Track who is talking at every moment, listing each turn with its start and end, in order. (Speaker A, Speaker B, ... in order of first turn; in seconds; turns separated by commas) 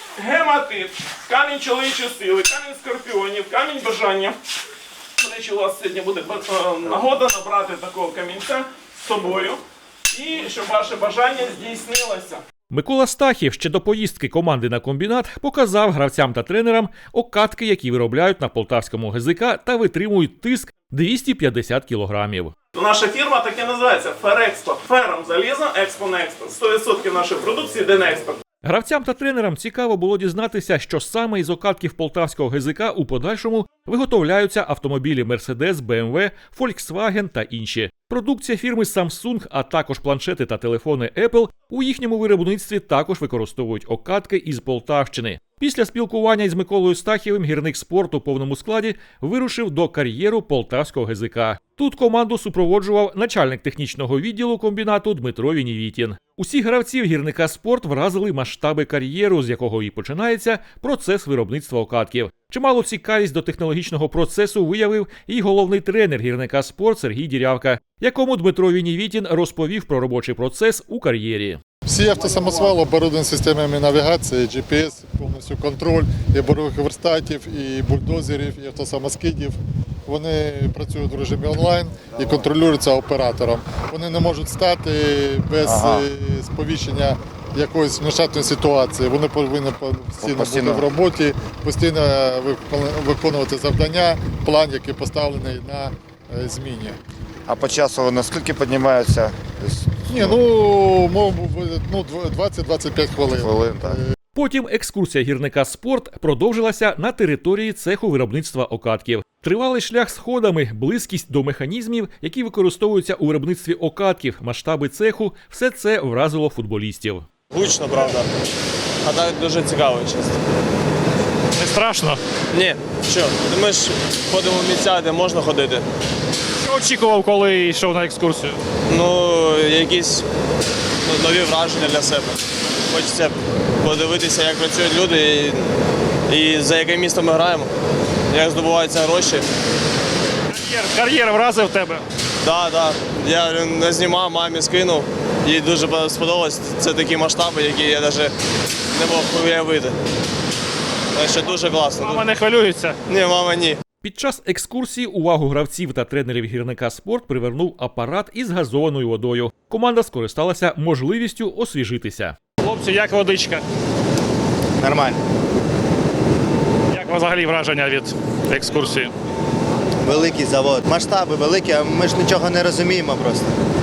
Speaker A: 0.2-4.4, Speaker A: 5.2-12.4, Speaker B: 12.7-22.6, Speaker A: 22.7-28.4, Speaker B: 28.6-71.6, Speaker C: 71.9-97.0, Speaker D: 85.6-86.1, Speaker D: 90.2-90.8, Speaker D: 97.5-100.4, Speaker C: 100.1-104.1, Speaker D: 103.4-104.0, Speaker B: 104.3-117.3, Speaker E: 117.5-118.3, Speaker E: 119.0-120.4, Speaker F: 121.6-122.2, Speaker E: 122.5-125.8, Speaker F: 126.6-128.6, Speaker E: 128.9-130.2, Speaker E: 131.1-135.7, Speaker E: 136.3-137.7, Speaker E: 138.3-139.4, Speaker F: 140.5-142.0, Speaker E: 142.4-148.3, Speaker E: 148.9-149.9, Speaker E: 151.1-152.3, Speaker F: 152.0-153.0, Speaker E: 153.1-153.8, Speaker B: 154.0-162.4, Speaker F: 162.6-163.6, Speaker F: 167.0-169.1, Speaker G: 170.1-173.5